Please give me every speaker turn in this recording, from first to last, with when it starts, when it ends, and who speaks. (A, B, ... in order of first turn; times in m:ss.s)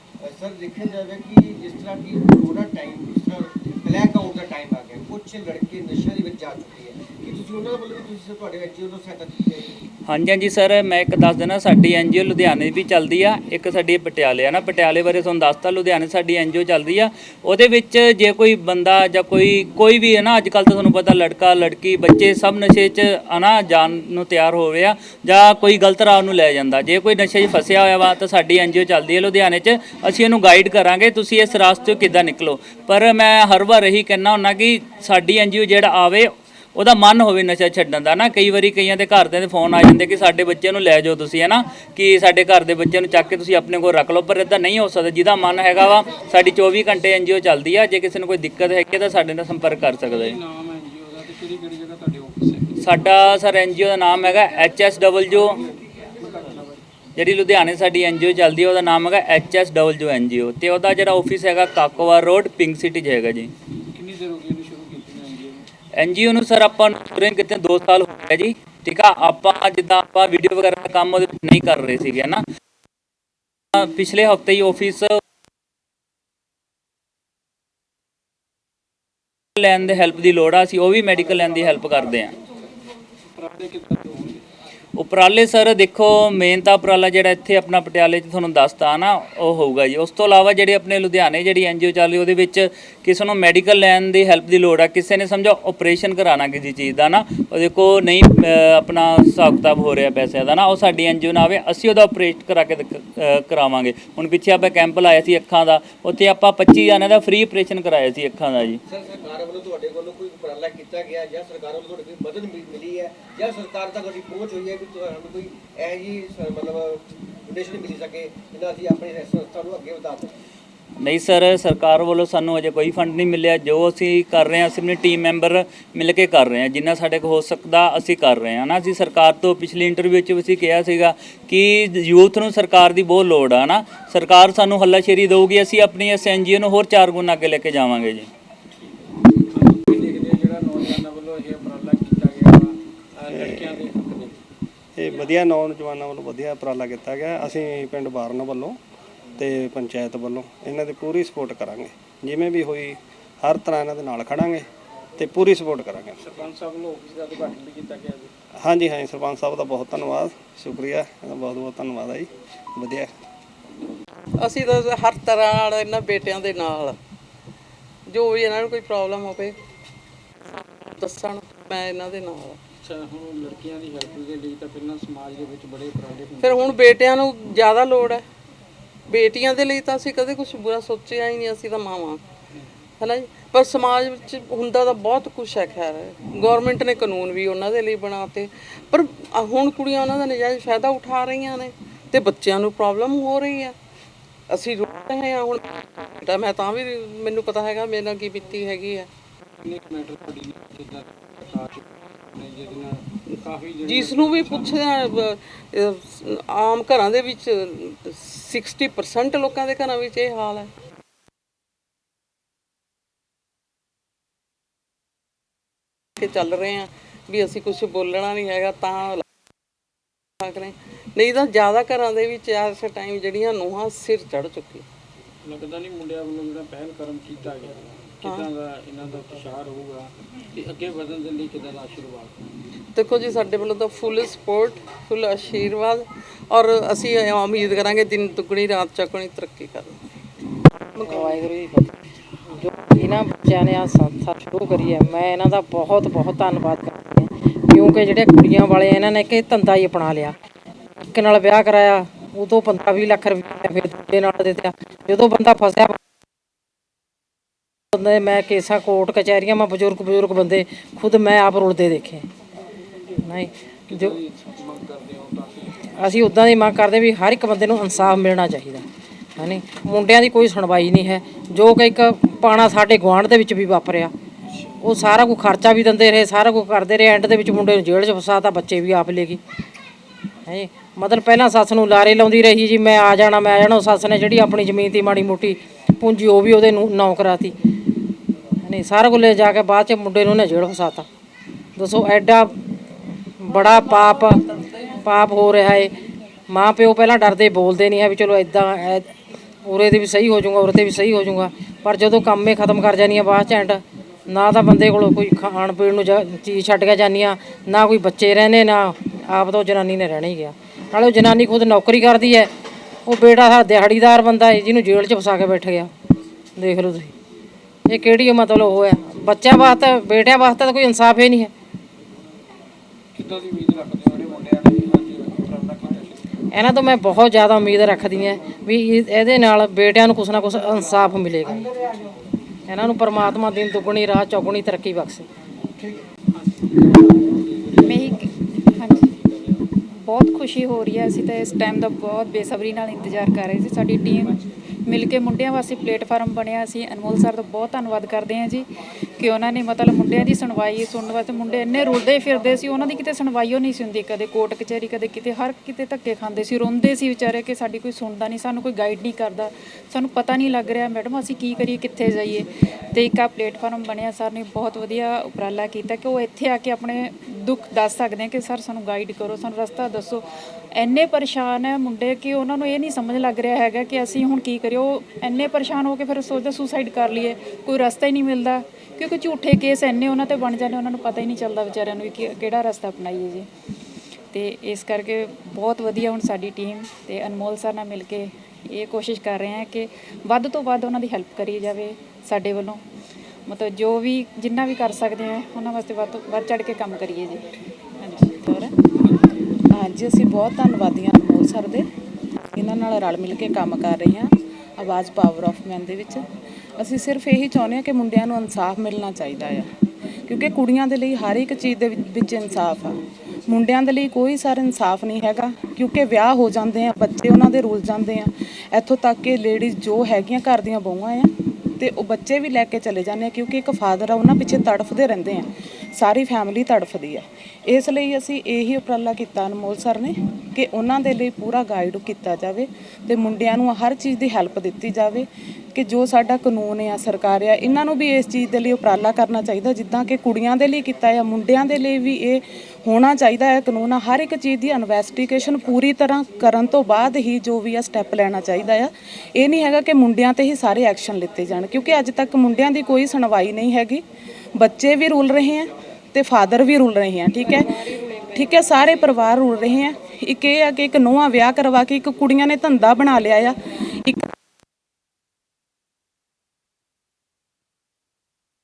0:00.2-0:09.8 A
0:10.1-0:50.4 B
0:50.1-0:52.8 C
0:52.8-0:55.6 B
0:55.4-0:56.8 C
0:57.2-1:03.5 B
1:03.9-1:05.7 C
1:06.0-1:12.4 B
1:13.8-1:15.2 B
1:19.6-1:22.3 B
1:23.4-1:24.4 C
1:25.0-1:48.8 B
1:48.8-2:00.3 A
2:01.0-2:18.3 B
2:19.5-2:24.4 C
2:23.3-2:23.8 D
2:25.0-2:28.8 D
2:29.4-2:34.6 D
2:35.2-2:36.2 D
2:36.2-2:38.3 C
2:38.6-2:43.1 D
2:44.4-2:47.0 E
2:48.1-2:49.6 E
2:50.5-2:52.6 E
2:52.8-2:56.9 C
2:56.4-2:58.2 E
2:59.1-3:02.2 E
3:03.0-3:13.7 E
3:14.5-3:19.1 E
3:19.6-3:24.8 C
3:23.3-3:30.7 E
3:36.2-3:39.2 E
3:40.4-3:44.8 E
3:45.4-3:52.3 C
3:48.2-3:48.5 E
3:52.9-4:00.0 E
4:01.0-4:01.4 E
4:01.0-4:01.9 F
4:02.6-4:10.3 F
4:11.1-4:16.0 F
4:17.9-4:22.2 F
4:23.2-4:24.2 F
4:23.9-4:25.9 C
4:25.9-4:28.8 F
4:29.4-4:34.1 F
4:34.8-4:39.4 F
4:40.4-4:47.5 F
4:48.6-4:51.0 F
4:51.8-4:52.5 F
4:53.4-4:54.4 F
4:55.0-4:55.9 F
4:56.5-4:59.1 F
4:59.6-5:12.5 F
5:13.0-5:15.9 F
5:16.6-5:17.1 F
5:17.9-5:21.5 F
5:23.1-5:26.2 C
5:26.5-5:31.6 F
5:32.7-5:35.3 F
5:35.8-5:36.0 A
5:36.3-5:38.2 C
5:37.8-5:39.2 G
5:38.8-5:39.6 C
5:39.8-5:48.7 G
5:49.2-6:23.5 G
6:24.3-6:32.8 G
6:33.5-6:37.4 G
6:38.0-6:38.3 G
6:38.4-6:38.7 H
6:39.7-6:41.8 H
6:42.5-6:46.2 H
6:46.8-6:49.7 H
6:50.3-7:34.0 H
7:34.6-7:44.2 H